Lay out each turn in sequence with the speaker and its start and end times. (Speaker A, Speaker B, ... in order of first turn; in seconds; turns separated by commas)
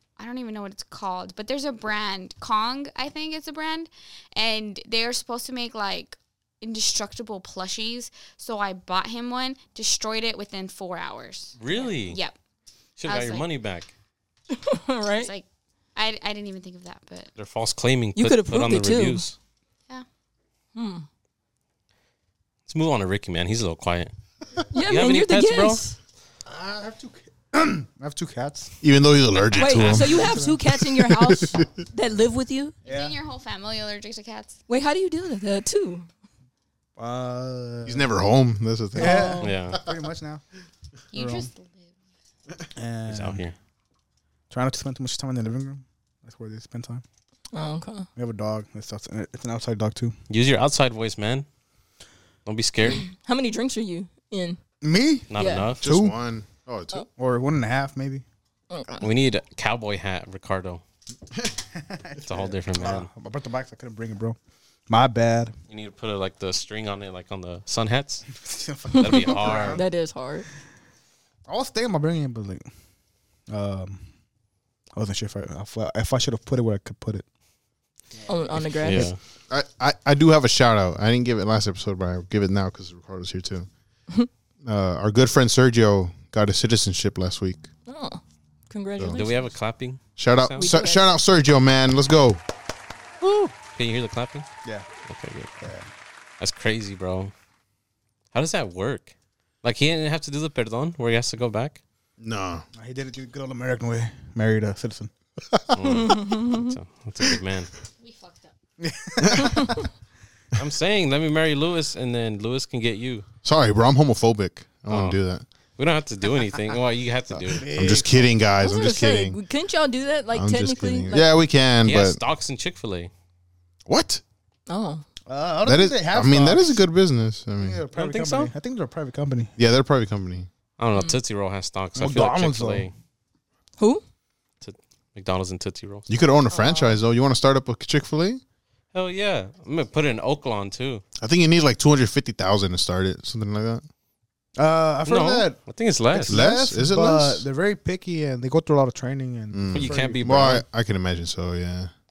Speaker A: 0.2-12.3, Speaker B: 11.6-12.2, Speaker B: 13.0-13.9, Speaker A: 13.0-13.4, Speaker C: 14.5-15.3, Speaker A: 15.2-17.3, Speaker B: 17.4-19.4, Speaker C: 18.1-19.3, Speaker C: 20.7-21.1, Speaker B: 22.7-24.1, Speaker C: 24.7-25.9, Speaker B: 24.7-25.8, Speaker D: 26.5-28.8, Speaker E: 28.8-30.3, Speaker C: 29.5-32.7, Speaker B: 29.6-29.9, Speaker D: 29.7-30.6, Speaker E: 30.9-31.7, Speaker D: 32.8-33.1, Speaker A: 32.8-34.6, Speaker C: 34.7-36.1, Speaker D: 37.0-38.1, Speaker E: 37.8-39.4, Speaker D: 38.9-40.4, Speaker C: 39.0-39.5, Speaker B: 39.4-39.8, Speaker A: 41.1-41.9, Speaker D: 41.1-41.5, Speaker D: 42.8-43.4, Speaker B: 43.1-43.5, Speaker D: 44.5-47.0, Speaker C: 47.5-48.1, Speaker D: 48.1-50.1, Speaker B: 50.3-51.5, Speaker B: 52.5-53.1, Speaker C: 53.0-54.6, Speaker D: 54.8-56.1, Speaker B: 55.3-55.8, Speaker C: 55.3-55.7, Speaker E: 55.8-57.0, Speaker D: 57.1-58.2, Speaker C: 58.7-59.1, Speaker B: 59.0-60.8, Speaker D: 61.5-64.4, Speaker B: 62.2-63.1, Speaker D: 64.9-65.5, Speaker B: 65.7-68.2, Speaker D: 68.3-69.9, Speaker C: 68.9-70.5, Speaker B: 69.0-69.8, Speaker D: 71.5-72.6, Speaker D: 73.5-74.0, Speaker D: 75.0-77.2, Speaker D: 78.2-78.9, Speaker C: 78.3-79.1, Speaker B: 78.8-79.2, Speaker E: 79.5-83.7, Speaker E: 84.6-87.7, Speaker C: 87.9-89.5, Speaker B: 89.1-90.7, Speaker E: 90.2-92.4, Speaker C: 90.5-91.1, Speaker C: 93.2-93.5, Speaker B: 93.7-94.5, Speaker B: 95.1-95.5, Speaker D: 95.6-95.9, Speaker B: 96.4-97.3, Speaker B: 98.3-101.8, Speaker E: 102.2-102.7, Speaker D: 102.8-105.1, Speaker B: 105.7-107.7, Speaker C: 105.9-106.7, Speaker A: 108.0-108.5, Speaker D: 108.8-109.8, Speaker E: 109.2-109.5, Speaker B: 110.5-113.2, Speaker E: 113.4-115.4, Speaker B: 114.9-115.2, Speaker B: 115.8-117.7, Speaker E: 117.3-119.4, Speaker D: 117.5-118.4, Speaker C: 118.6-121.3, Speaker E: 120.3-122.2, Speaker B: 121.8-123.1, Speaker E: 123.8-124.2, Speaker C: 124.7-125.0, Speaker D: 125.3-126.8, Speaker E: 125.6-127.8, Speaker D: 127.6-129.5, Speaker B: 127.9-128.5, Speaker E: 129.6-130.5, Speaker B: 130.8-132.9, Speaker C: 130.9-131.2, Speaker D: 132.0-132.8, Speaker B: 134.6-136.1, Speaker E: 136.1-138.4, Speaker C: 136.5-136.9, Speaker B: 138.9-141.0, Speaker E: 141.2-143.8, Speaker D: 144.6-145.6, Speaker B: 145.0-146.5, Speaker D: 146.1-150.6, Speaker E: 146.2-147.5, Speaker E: 149.5-151.9, Speaker B: 149.7-150.6